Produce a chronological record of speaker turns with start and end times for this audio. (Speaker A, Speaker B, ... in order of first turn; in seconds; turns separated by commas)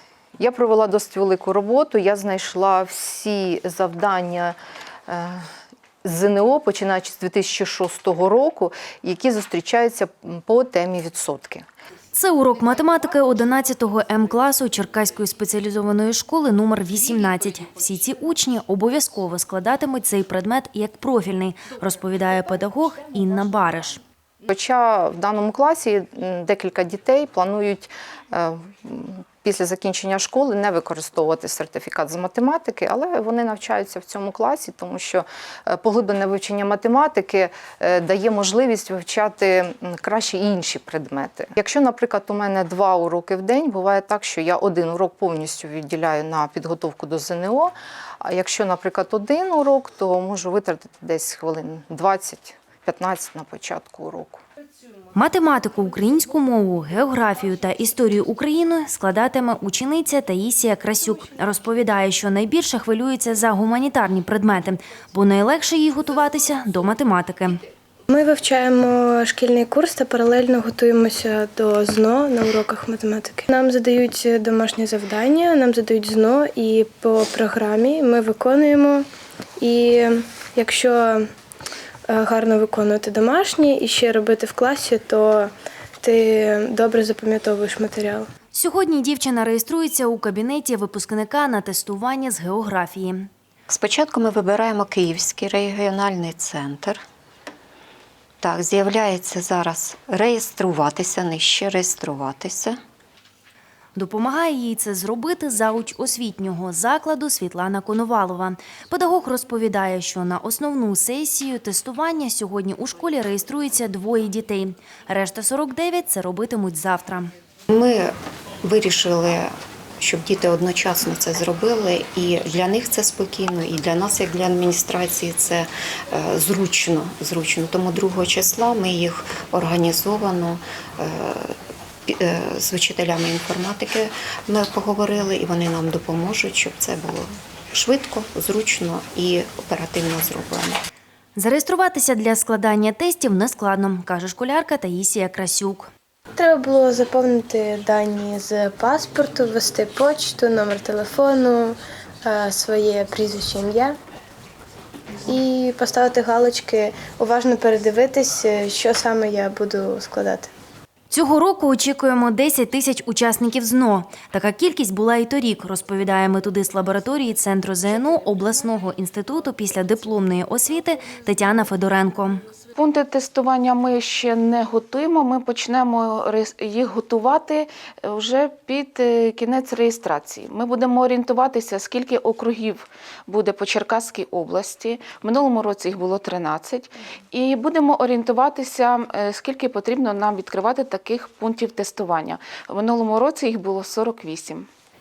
Speaker A: 0.4-4.5, Speaker A: 5.1-5.4, Speaker A: 6.0-11.7, Speaker B: 12.1-24.0, Speaker A: 24.5-54.4, Speaker B: 55.1-67.6, Speaker C: 68.1-79.0, Speaker C: 79.6-81.2, Speaker C: 82.1-88.3, Speaker B: 88.5-93.3, Speaker D: 93.7-97.0, Speaker D: 98.4-102.8, Speaker B: 103.9-117.3, Speaker D: 117.7-131.6, Speaker D: 132.1-140.8, Speaker B: 141.3-145.9, Speaker C: 146.3-153.9, Speaker C: 155.2-160.5, Speaker B: 161.1-172.4, Speaker E: 172.8-194.7